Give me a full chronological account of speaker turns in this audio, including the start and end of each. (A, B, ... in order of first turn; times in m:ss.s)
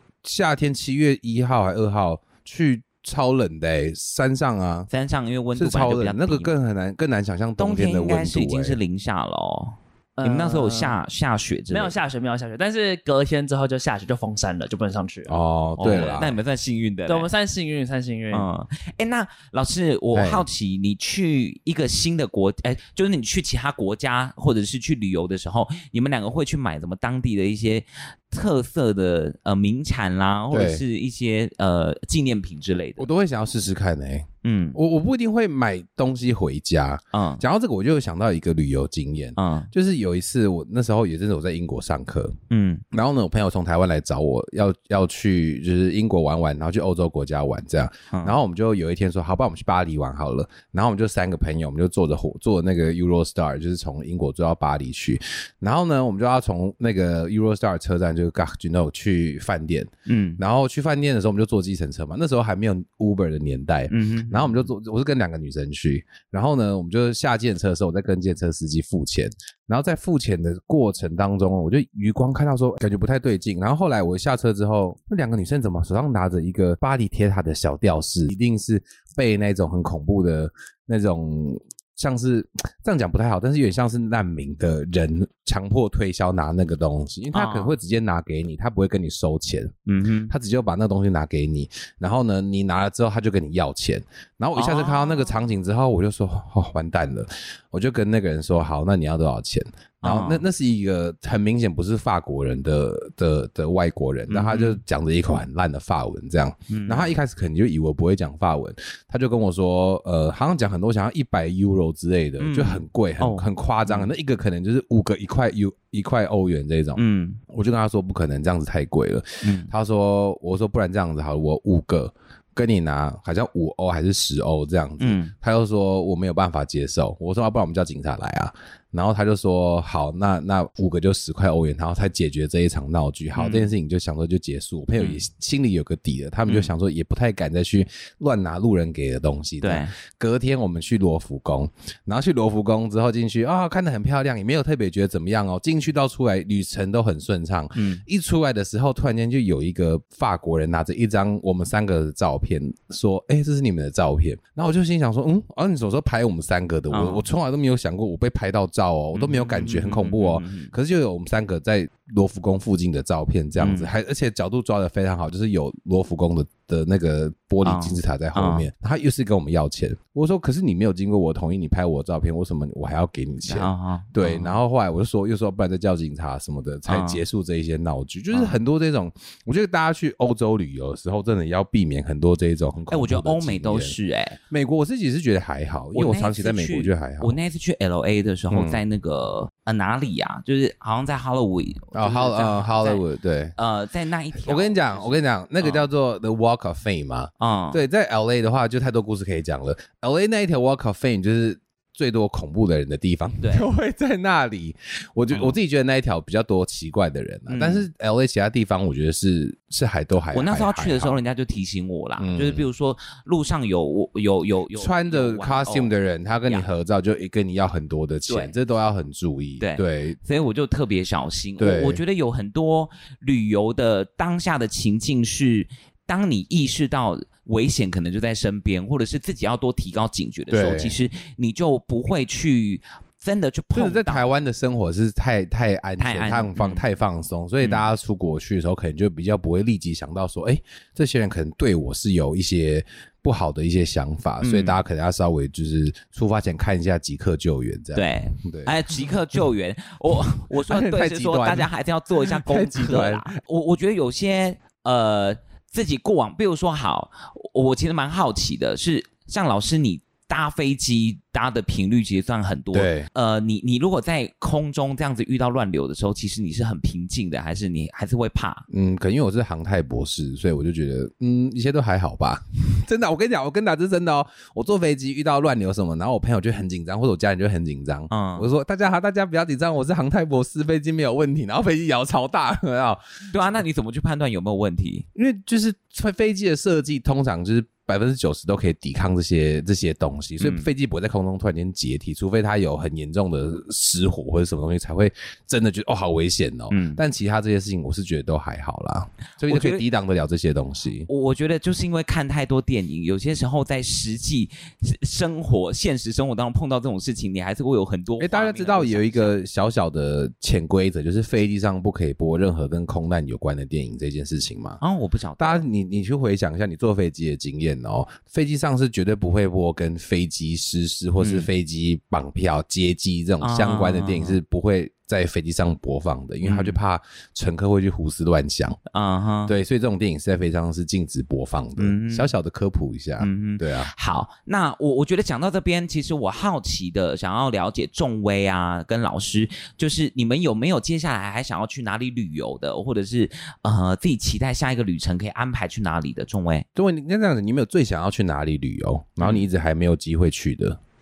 0:00.2-0:04.9 A
0:04.9-0:06.5 B
0:05.6-0:08.8 A
0:07.6-0:12.0 B
0:10.2-0:11.0 C
0:11.7-0:15.4 C
0:15.3-0:16.4 A
0:15.8-0:17.3 B
0:17.1-0:18.5 C
0:18.3-0:33.1 B
0:20.1-0:20.4 A
0:30.5-0:30.8 A
0:33.0-0:42.4 A
0:34.4-0:34.8 B
0:37.1-0:37.4 B
0:39.4-0:39.7 B
0:42.5-0:42.8 B
0:42.9-1:29.8 A
1:00.1-1:00.4 B
1:03.9-1:04.7 B
1:27.3-1:27.8 B
1:29.9-1:30.3 B
1:30.3-3:04.0 A
1:34.6-1:35.4 B
1:40.0-1:40.4 B
1:44.3-1:44.8 B
1:46.7-1:47.2 B
1:52.4-1:54.1 B
1:57.0-1:57.4 B
1:59.4-1:59.7 B
2:05.0-2:05.3 B
2:13.4-2:13.7 B
2:15.0-2:15.2 B
2:16.5-2:16.7 B
2:19.6-2:19.9 B
2:27.8-2:28.0 B
2:36.9-2:37.2 B
2:39.1-2:40.7 B
2:43.6-2:43.9 B
2:47.6-2:48.7 B
2:53.5-2:54.6 B
2:56.9-2:57.2 B
2:58.3-2:58.6 B
3:02.9-3:04.4 B
3:04.5-3:07.4 A
3:05.9-3:13.0 B
3:08.5-3:08.8 A
3:11.9-3:13.5 A
3:13.6-3:15.9 B
3:14.4-3:31.2 A
3:17.4-3:17.8 B
3:23.4-3:23.7 B
3:27.5-3:27.9 B
3:30.3-3:35.9 B
3:32.2-3:32.7 A
3:34.8-3:40.2 A
3:38.3-3:38.6 B
3:39.6-3:54.3 B
3:41.6-3:42.0 A
3:50.5-3:51.0 A
3:53.7-4:08.7 A
3:56.0-3:56.8 B
4:04.4-4:04.8 B
4:07.9-4:28.6 B
4:10.5-4:13.3 A
4:22.7-4:23.1 A
4:28.7-4:43.0 A
4:38.1-4:38.5 B
4:43.3-4:45.1 B
4:45.2-5:01.1 A
4:50.4-4:50.7 B
4:56.7-4:57.0 B
4:59.5-4:59.8 B
5:01.1-5:09.3 B
5:08.2-5:14.8 A
5:14.8-5:15.6 B
5:15.4-5:28.8 A
5:21.2-5:21.5 B
5:23.4-5:24.4 B
5:26.4-5:26.8 B
5:28.9-5:29.6 B
5:29.4-5:33.9 A
5:31.8-5:32.3 B
5:33.2-5:46.7 B
5:46.8-5:50.8 A
5:49.2-5:49.5 B